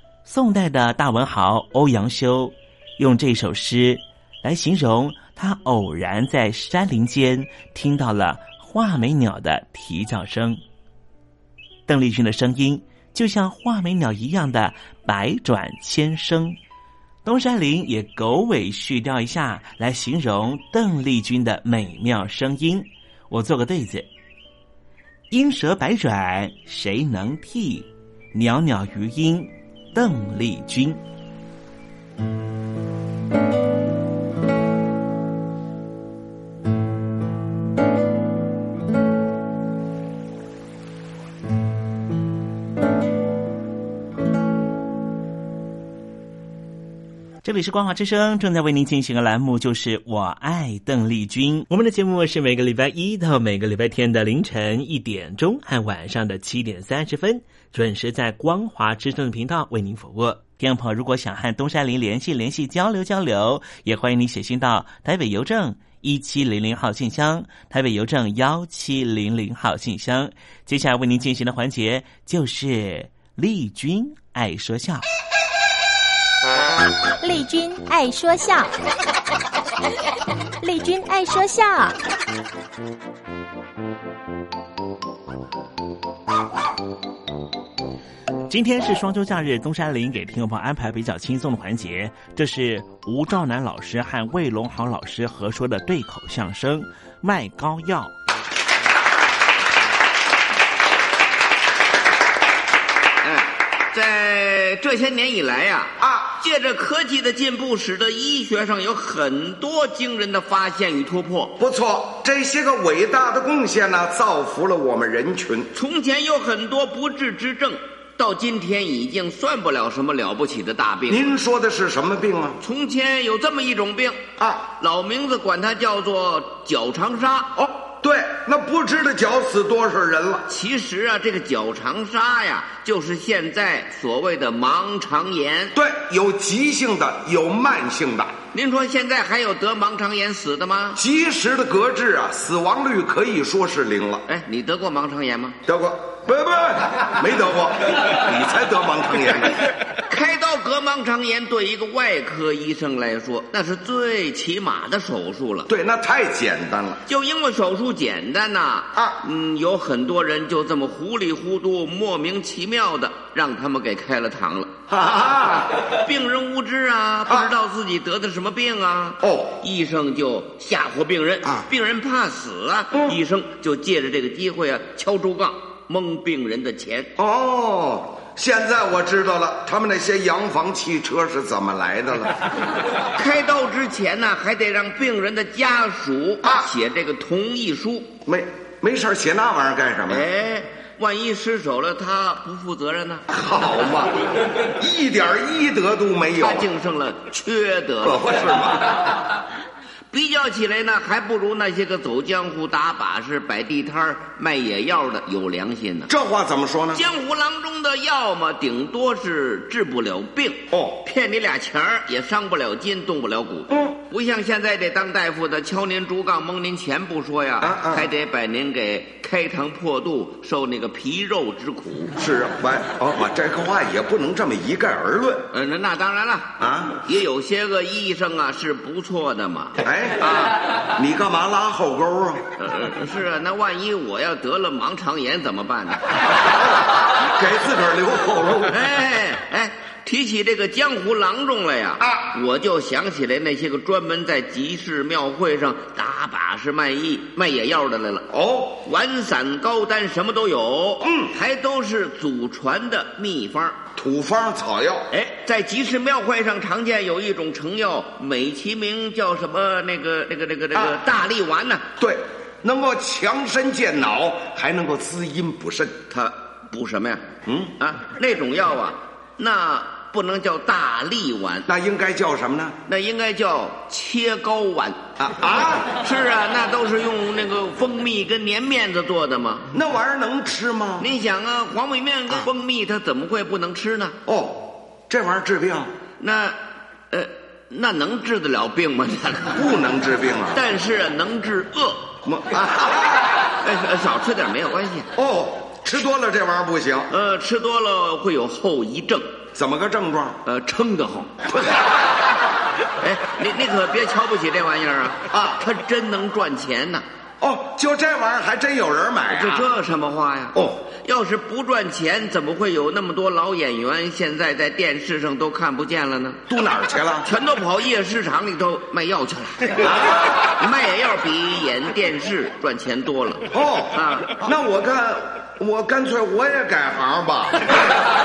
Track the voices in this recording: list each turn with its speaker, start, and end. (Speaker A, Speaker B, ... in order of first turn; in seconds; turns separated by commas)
Speaker A: 0.2-10.6, Speaker A: 11.9-16.6, Speaker A: 17.2-24.1, Speaker A: 25.3-31.0, Speaker A: 47.4-75.0, Speaker B: 77.2-78.7, Speaker B: 80.6-81.9, Speaker A: 88.5-98.1, Speaker C: 103.2-111.5, Speaker D: 106.0-106.3, Speaker D: 111.6-115.7, Speaker C: 115.7-121.2, Speaker D: 121.1-122.6, Speaker C: 122.6-124.2, Speaker D: 124.4-124.7, Speaker C: 124.8-127.5, Speaker D: 127.6-130.4, Speaker C: 130.5-135.7, Speaker D: 135.7-138.3, Speaker C: 138.5-141.0, Speaker D: 140.9-144.2, Speaker C: 144.3-145.6, Speaker D: 145.7-149.7, Speaker C: 150.1-155.7, Speaker D: 155.7-157.0, Speaker C: 157.1-164.7, Speaker D: 164.9-165.8, Speaker C: 165.8-177.1, Speaker D: 169.2-169.6, Speaker D: 177.2-182.4, Speaker C: 183.1-188.1, Speaker D: 188.2-190.2, Speaker C: 190.1-193.3, Speaker D: 193.3-196.7, Speaker C: 196.4-198.8, Speaker D: 198.0-198.8, Speaker C: 200.1-206.1, Speaker D: 206.1-207.0, Speaker C: 206.9-222.1, Speaker D: 210.7-211.0, Speaker D: 217.6-218.1, Speaker D: 222.2-225.5, Speaker C: 225.5-230.6, Speaker D: 226.6-227.0, Speaker D: 229.8-230.2, Speaker D: 230.9-232.4, Speaker C: 232.6-236.0, Speaker D: 237.2-238.8, Speaker C: 238.7-248.3, Speaker D: 242.0-242.2, Speaker D: 248.3-248.8, Speaker C: 248.8-253.8, Speaker D: 251.0-251.3, Speaker D: 253.9-255.1, Speaker C: 255.1-261.9, Speaker D: 262.0-266.1, Speaker C: 266.1-267.2, Speaker D: 267.4-267.7, Speaker C: 267.8-271.7, Speaker D: 271.7-272.8, Speaker C: 272.9-275.1, Speaker D: 275.2-275.9, Speaker C: 275.9-279.7, Speaker D: 279.7-281.1, Speaker C: 281.0-284.2, Speaker D: 284.2-285.9, Speaker C: 286.2-286.6, Speaker C: 287.1-289.7, Speaker D: 289.6-290.6, Speaker C: 290.5-292.1, Speaker D: 292.2-293.3, Speaker C: 293.6-295.1, Speaker D: 295.1-297.1, Speaker C: 297.1-299.3, Speaker D: 299.5-300.4, Speaker C: 300.4-301.4, Speaker D: 301.5-301.8, Speaker C: 303.0-307.1, Speaker D: 305.3-305.6, Speaker D: 307.4-309.7, Speaker C: 309.3-316.4, Speaker D: 310.5-310.8, Speaker D: 316.5-317.2, Speaker C: 317.2-324.4, Speaker D: 319.8-320.2, Speaker D: 323.5-327.7